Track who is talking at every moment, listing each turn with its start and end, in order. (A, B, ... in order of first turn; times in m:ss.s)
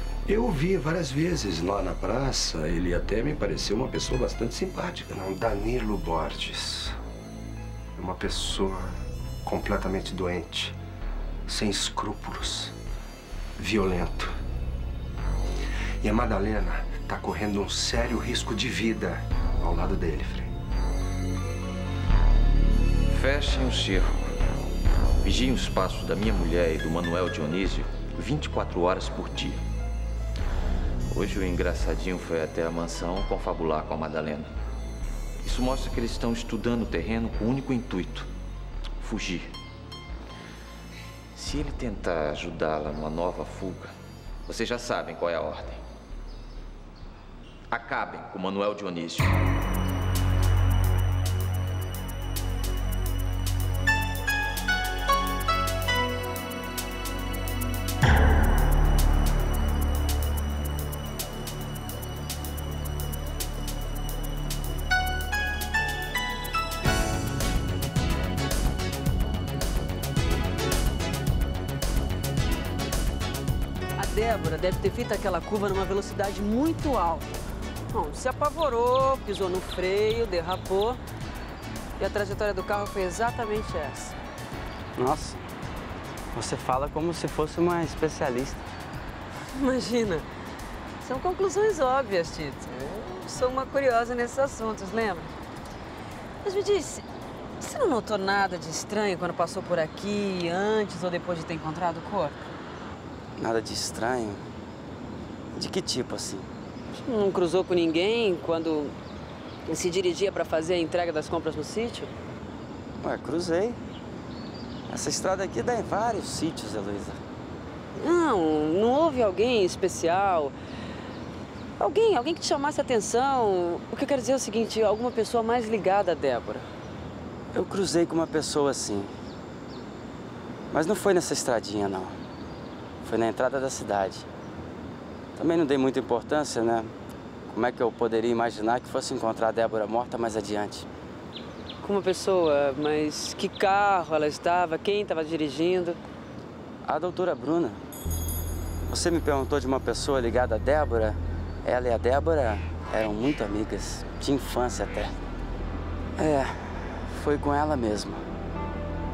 0:00.2-0:05.2 A
0:05.1-0:07.0 B
0:08.0-0:10.8 B
0:11.5-0:12.7 B
0:13.6-0:14.3 B
0:16.0-0:20.5 B
0:23.1-0:24.3 C
0:25.2-0:29.6 C
0:31.1-0:34.5 C
0:35.4-0:38.3 C
0:39.0-0:39.5 C
0:41.3-0:44.0 C
0:44.5-0:45.8 C
0:47.7-0:49.4 C
1:14.0-1:17.3 D
1:17.9-1:21.0 D
1:22.0-1:24.0 D
1:24.9-1:25.5 E
1:26.3-1:28.6 E
1:29.5-1:30.3 D
1:31.0-1:35.3 D
1:36.4-1:37.0 D
1:37.6-1:42.5 D
1:43.4-1:44.4 E
1:45.5-1:46.5 E
1:46.9-1:48.9 D
1:49.6-1:52.1 D
1:53.0-1:53.8 E
1:54.9-1:57.2 E
1:57.9-2:00.6 D
2:01.8-2:06.7 D
2:07.5-2:09.1 E
2:10.7-2:12.2 E
2:13.0-2:14.3 E
2:15.4-2:16.9 E
2:17.5-2:20.9 E
2:21.8-2:26.0 D
2:26.8-2:27.8 E
2:28.9-2:35.1 E
2:36.2-2:38.2 E